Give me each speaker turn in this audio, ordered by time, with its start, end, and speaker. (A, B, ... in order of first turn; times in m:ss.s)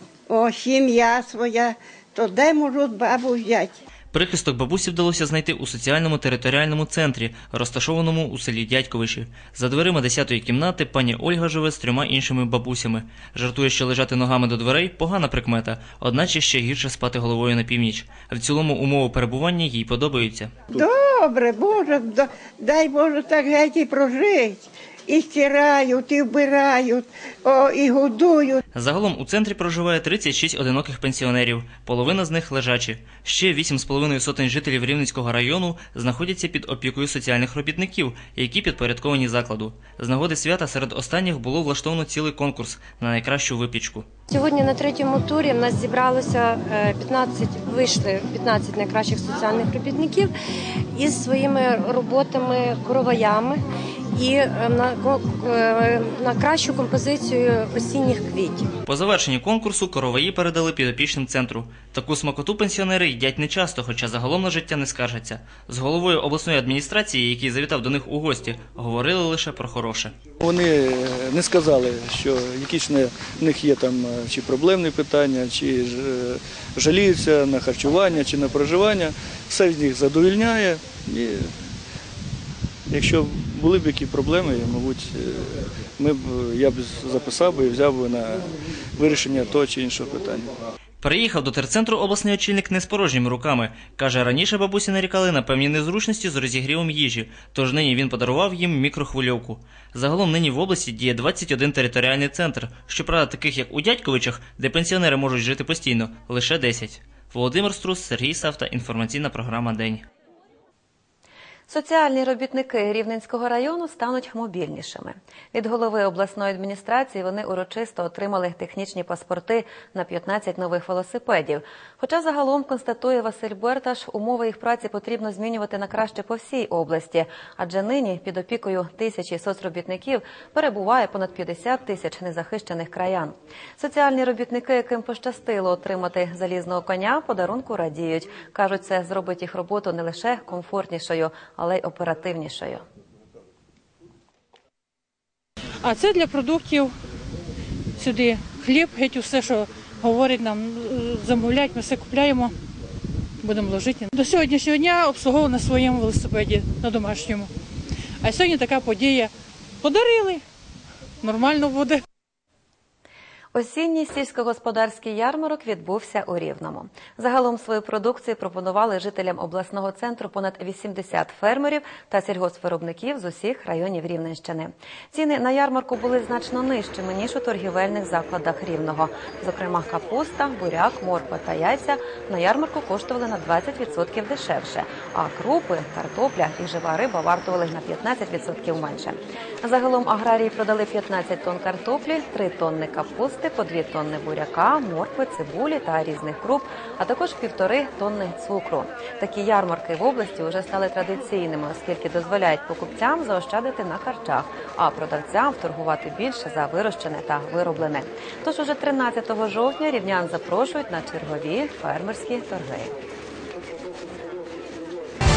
0:00.3-0:03.8 A
0:04.1-0:20.5 B
0:20.7-0:28.6 A
0:28.8-0:44.1 B
0:44.3-0:50.3 C
0:51.0-0:53.6 C
0:54.1-0:58.7 C
0:58.9-1:10.1 B
1:10.4-1:21.4 D
1:22.9-1:25.4 D
1:26.0-1:28.4 D
1:29.0-1:30.5 D
1:31.0-1:50.0 B
1:51.7-2:22.8 E
2:25.8-2:26.9 F
2:28.0-2:32.5 F
2:33.4-2:37.5 F
2:38.2-2:39.3 F
2:39.8-2:40.4 F
2:41.2-2:42.0 F
2:43.6-3:32.9 E